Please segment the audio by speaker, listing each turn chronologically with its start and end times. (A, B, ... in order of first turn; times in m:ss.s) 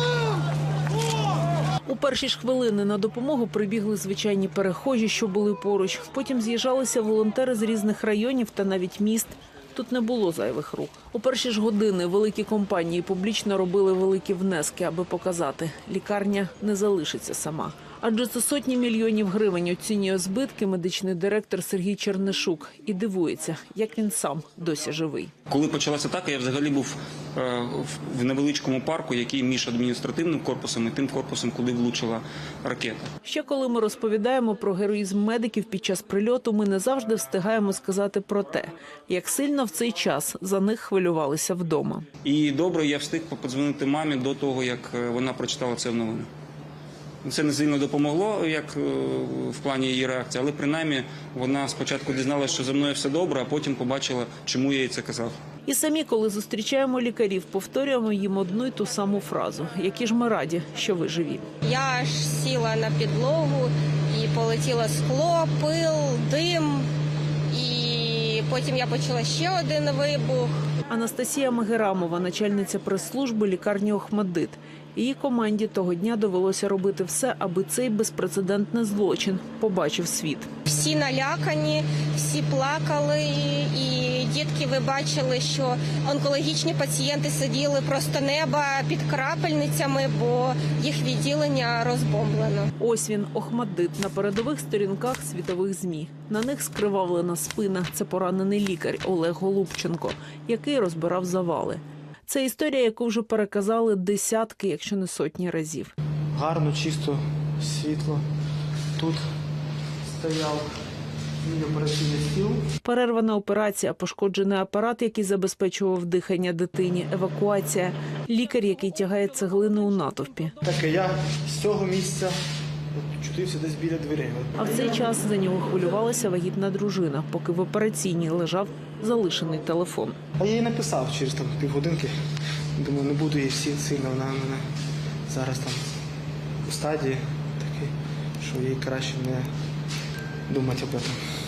0:01.8-0:25.3 A
0:25.5-0:33.0 B
0:33.2-0:42.0 A
0:42.2-0:46.3 B
0:47.2-0:55.4 B
0:55.6-1:01.4 A
1:01.6-1:06.9 C
1:07.5-1:10.5 C
1:10.9-1:20.5 A
1:20.7-1:32.7 C
1:32.8-1:45.9 A
1:46.3-1:48.2 D
1:49.0-1:49.2 D
1:50.0-1:50.7 D
1:51.4-1:52.6 D
1:52.8-2:00.5 A
2:00.6-2:02.4 D
2:02.9-2:04.5 D
2:04.6-2:10.2 A
2:10.4-2:12.1 D
2:12.8-2:14.6 D
2:15.3-2:15.8 D
2:16.6-2:19.5 D
2:20.5-2:21.2 D